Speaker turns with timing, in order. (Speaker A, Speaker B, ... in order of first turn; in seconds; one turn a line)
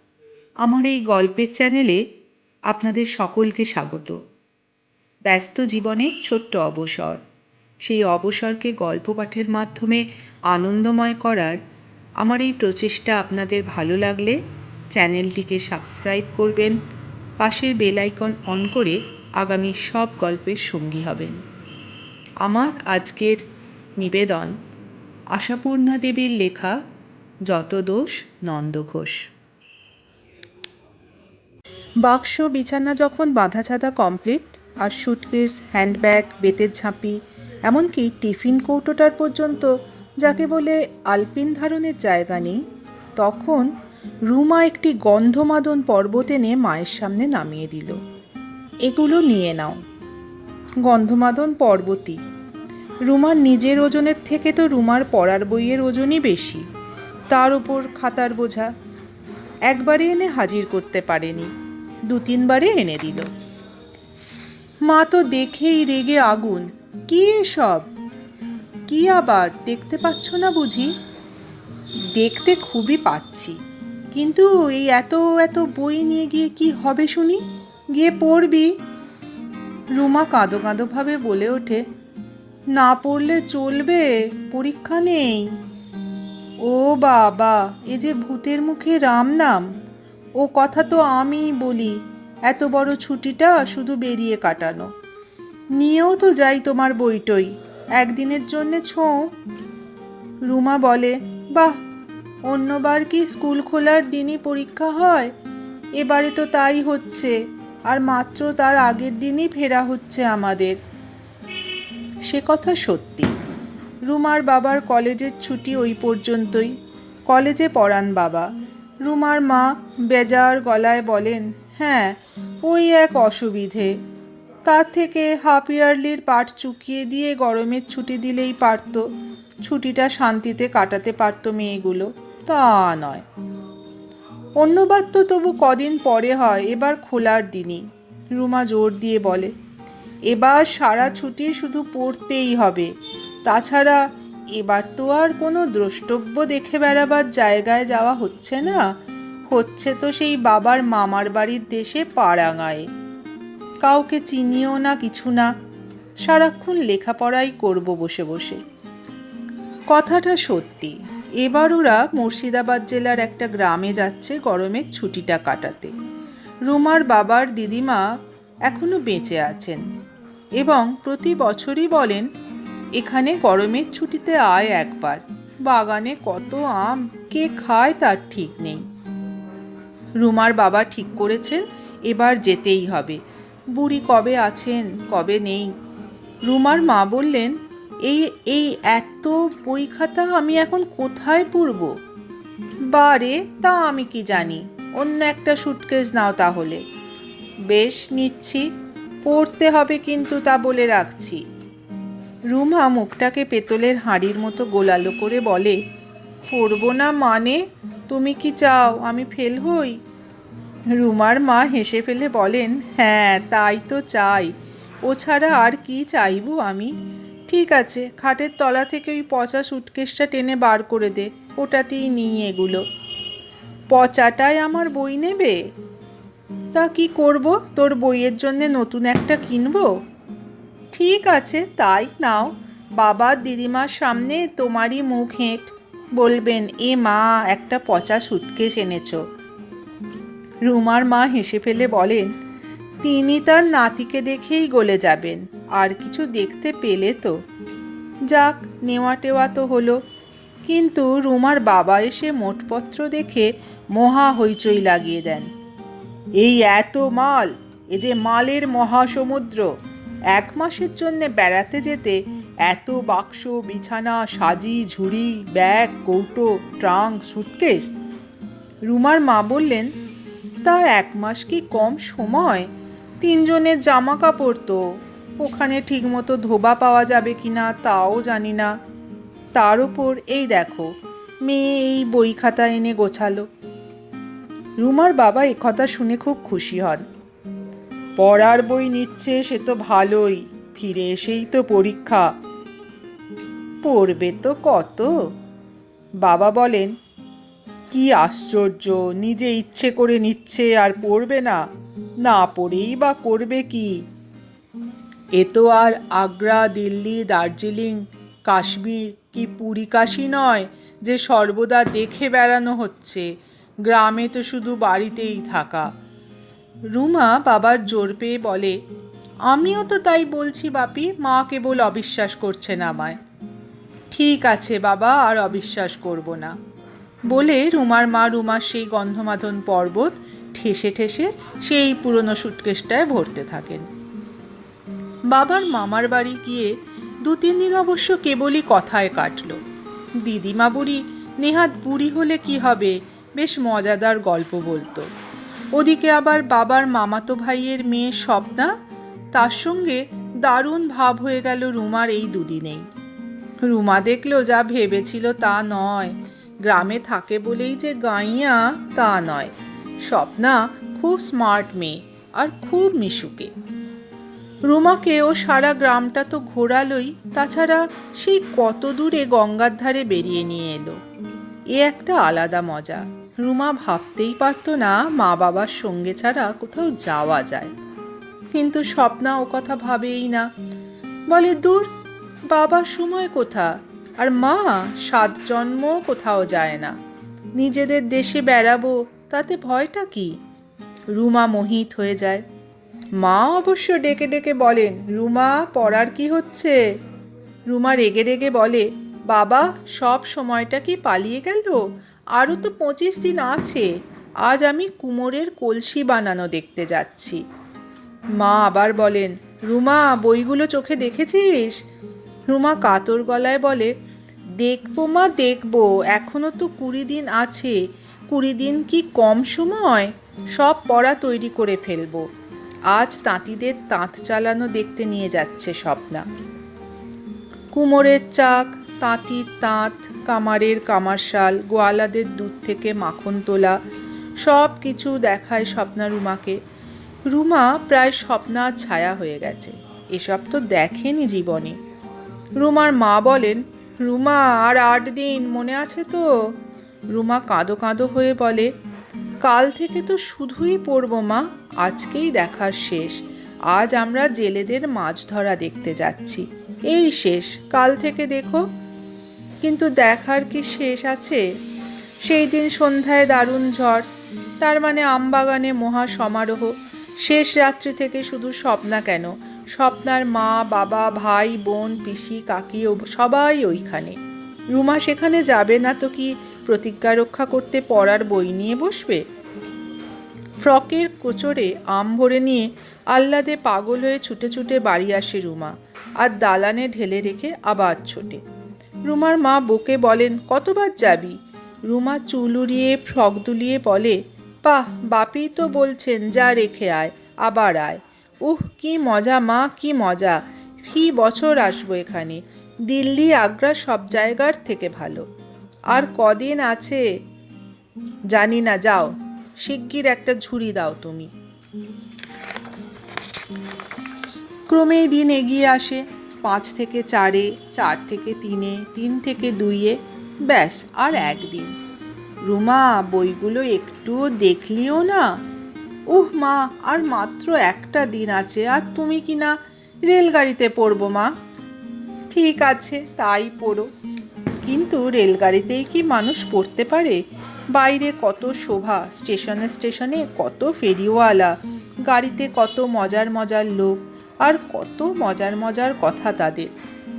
Speaker A: 0.6-2.0
Speaker A: 2.7-4.2
Speaker A: 5.2-7.2
Speaker A: 7.8-11.6
Speaker A: 12.2-14.4
Speaker A: 14.9-16.8
Speaker A: 17.4-21.4
Speaker A: 22.4-23.4
Speaker A: 24.0-24.6
Speaker A: 25.3-26.8
Speaker A: 27.5-29.2
Speaker A: 32.0-42.6
Speaker A: 43.2-43.7
Speaker A: 44.3-48.0
Speaker A: 48.8-49.8
Speaker A: 50.8-52.2
Speaker A: 53.0-56.6
Speaker A: 57.3-58.7
Speaker A: 59.7-61.5
Speaker A: 62.1-63.3
Speaker A: 64.8-67.9
Speaker A: 68.9-70.9
Speaker A: 72.1-73.6
Speaker A: 74.1-78.7
Speaker A: 79.9-81.8
Speaker A: 82.7-85.5
Speaker A: 86.6-89.7
Speaker A: 90.4-94.9
Speaker A: 95.8-99.2
Speaker A: 100.5-101.7
Speaker A: 102.5-105.3
Speaker A: 106.0-107.3
Speaker A: 107.9-110.8
Speaker A: 112.2-113.3
Speaker A: 114.1-116.7
Speaker A: 117.3-118.5
Speaker A: 119.0-124.0
Speaker A: 124.6-129.0
Speaker A: 129.6-133.2
Speaker A: 134.6-139.5
Speaker A: 140.3-142.9
Speaker A: 143.4-144.0
Speaker A: 144.5-148.9
Speaker A: 149.5-152.9
Speaker A: 153.8-155.5
Speaker A: 156.2-158.6
Speaker A: 159.9-165.9
Speaker A: 166.7-168.1
Speaker A: 168.7-169.8
Speaker A: 170.6-172.3
Speaker A: 173.0-178.8
Speaker A: 180.2-183.2
Speaker A: 183.7-185.7
Speaker A: 186.5-191.9
Speaker A: 192.9-196.8
Speaker A: 197.7-198.7
Speaker A: 199.2-201.4
Speaker A: 202.5-205.8
Speaker A: 206.5-210.0
Speaker A: 210.9-214.5
Speaker A: 215.0-216.9
Speaker A: 217.5-222.8
Speaker A: 223.9-225.6
Speaker A: 226.7-229.9
Speaker A: 230.9-239.2
Speaker A: 240.7-242.3
Speaker A: 243.0-247.3
Speaker A: 248.3-250.0
Speaker A: 250.6-255.5
Speaker A: 256.4-259.7
Speaker A: 260.3-267.9
Speaker A: 268.9-269.9
Speaker A: 270.6-272.7
Speaker A: 273.2-274.8
Speaker A: 275.4-278.7
Speaker A: 279.5-280.9
Speaker A: 281.4-283.4
Speaker A: 284.8-287.0
Speaker A: 288.2-292.3
Speaker A: 293.8-295.1
Speaker A: 296.2-296.9
Speaker A: 297.9-301.6
Speaker A: 302.2-304.0
Speaker A: 305.3-313.3
Speaker A: 313.9-315.9
Speaker A: 316.9-318.8
Speaker A: 319.5-323.2
Speaker A: 324.1-326.6
Speaker A: 327.3-333.9
Speaker A: 335.3-339.6
Speaker A: 340.2-345.1
Speaker A: 345.7-348.7
Speaker A: 349.3-352.8
Speaker A: 353.6-359.5
Speaker A: 360.1-363.5
Speaker A: 364.7-371.0
Speaker A: 371.7-377.7
Speaker A: 378.5-380.5
Speaker A: 381.3-381.9
Speaker A: 382.5-386.9
Speaker A: 387.6-390.4
Speaker A: 391.1-392.4
Speaker A: 393.2-396.8
Speaker A: 397.7-401.8
Speaker A: 402.3-403.9
Speaker A: 404.4-407.4
Speaker A: 408.4-411.8
Speaker A: 412.5-413.9
Speaker A: 414.6-417.8
Speaker A: 418.3-422.2
Speaker A: 422.9-426.2
Speaker A: 427.7-433.8
Speaker A: 434.4-436.6
Speaker A: 437.3-441.8
Speaker A: 442.6-446.3
Speaker A: 447.1-448.7
Speaker A: 449.4-458.6
Speaker A: 459.6-461.4
Speaker A: 462.2-464.1
Speaker A: 464.6-474.2
Speaker A: 474.7-479.2
Speaker A: 480.6-488.4
Speaker A: 489.1-491.4
Speaker A: 491.9-505.2
Speaker A: 505.9-507.0
Speaker A: 508.3-511.3
Speaker A: 514.7-521.7
Speaker A: 522.4-525.3
Speaker A: 526.1-529.5
Speaker A: 530.1-531.3
Speaker A: 532.3-533.9
Speaker A: 534.6-537.2
Speaker A: 537.7-541.5
Speaker A: 542.1-546.7